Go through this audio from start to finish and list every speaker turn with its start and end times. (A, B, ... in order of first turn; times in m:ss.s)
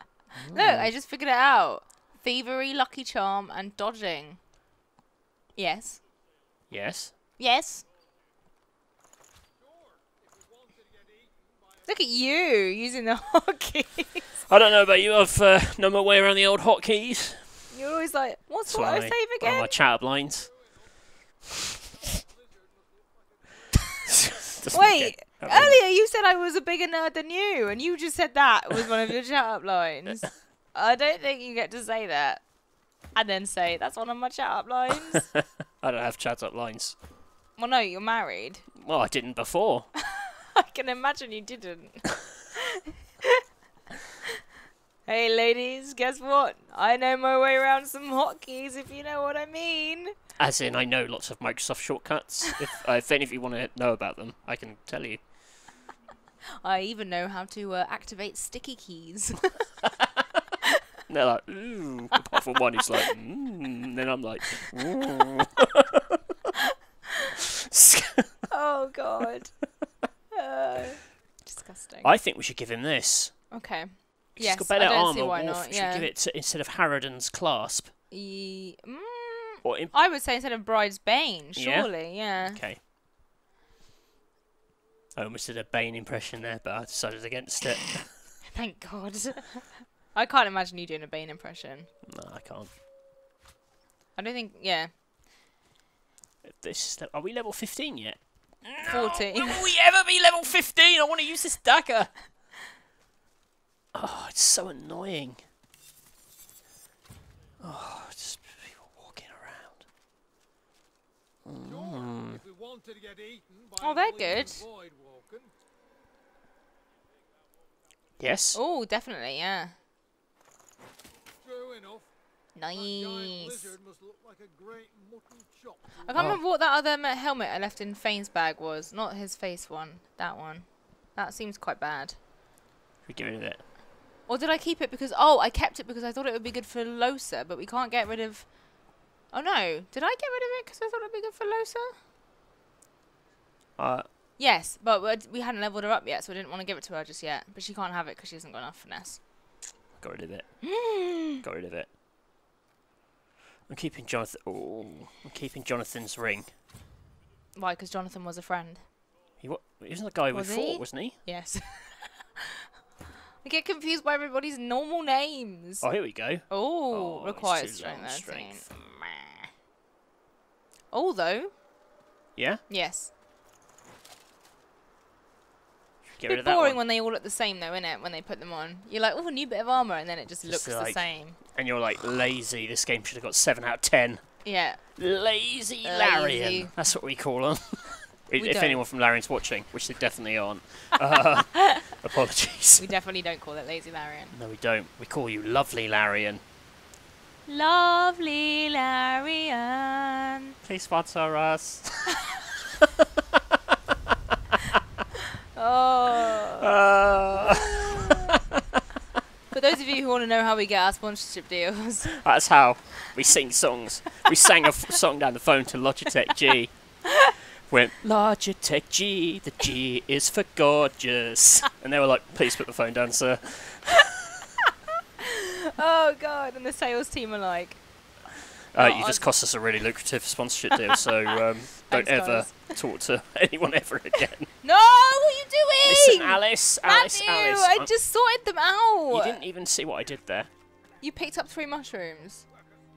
0:00.4-0:00.9 A
0:00.5-0:04.4 B
0:05.6-0:06.0 B
0:06.7-0:07.1 A
0:07.4-0:07.8 B
0:09.7-0:11.3 C
0:11.8-0:14.3 B
0:14.5-0:17.7 A
0:17.7-0:19.7 B
0:18.7-0:20.5 A
0:24.1-0:25.8 A
0:24.7-0:32.4 B
0:33.1-0:35.3 B
0:35.8-0:37.0 A
0:37.6-0:38.6 B
0:38.7-0:39.9 A
0:40.6-0:42.6 B
0:45.1-0:50.1 B
0:50.4-0:55.2 A
0:56.6-0:59.6 B
1:01.1-1:06.0 A
1:07.7-1:08.3 A
1:08.5-1:09.5 B
1:10.3-1:12.1 B
1:12.0-1:13.4 A
1:13.5-1:16.1 B
1:14.4-1:17.9 A
1:18.1-1:22.6 B
1:19.6-1:19.9 A
1:21.6-1:22.8 A
1:25.2-1:28.3 A
1:28.5-1:31.9 B
1:32.1-1:32.7 A
1:34.2-1:34.9 B
1:36.4-1:42.1 A
1:38.8-1:39.6 B
1:43.9-1:45.4 A
1:47.6-1:49.8 A
1:51.4-1:52.4 A
1:51.6-1:55.5 C
1:53.8-1:54.6 B
1:58.2-1:58.6 A
1:58.5-1:59.8 B
2:01.4-2:02.1 C
2:02.5-2:03.7 B
2:02.7-2:06.0 C
2:06.0-2:12.2 B
2:06.2-2:06.4 A
2:13.0-2:13.6 A
2:14.2-2:18.6 B
2:19.3-2:21.9 B
2:23.8-2:24.1 A
2:24.4-2:29.2 B
2:30.0-2:30.7 A
2:30.6-2:31.4 B
2:31.2-2:31.9 A
2:33.7-2:36.5 A
2:37.6-2:38.8 B
2:39.4-2:41.2 A
2:40.3-2:42.1 B
2:43.4-2:45.9 B
2:45.8-2:48.7 A
2:46.5-2:49.4 B
2:50.9-2:51.5 B
2:52.4-2:52.6 A
2:52.7-2:53.1 B
2:56.2-2:56.8 A
2:56.2-3:01.4 B
3:00.4-3:12.8 A
3:04.4-3:04.8 B
3:05.8-3:06.8 B
3:08.4-3:08.8 B
3:11.5-3:11.8 B
3:12.8-3:14.3 B
3:14.3-3:16.4 A
3:17.5-3:20.5 B
3:20.6-3:22.2 A
3:25.5-3:26.7 B
3:26.6-3:28.2 A
3:27.4-3:28.3 B
3:29.5-3:32.2 B
3:32.2-3:37.0 A
3:37.7-3:44.1 A
3:45.8-3:47.8 B
3:48.7-3:54.5 A
3:48.8-3:49.3 B
3:51.9-3:52.7 B
3:54.6-3:59.4 B
3:55.8-3:57.9 A
3:59.1-4:00.5 A
4:01.0-4:02.4 B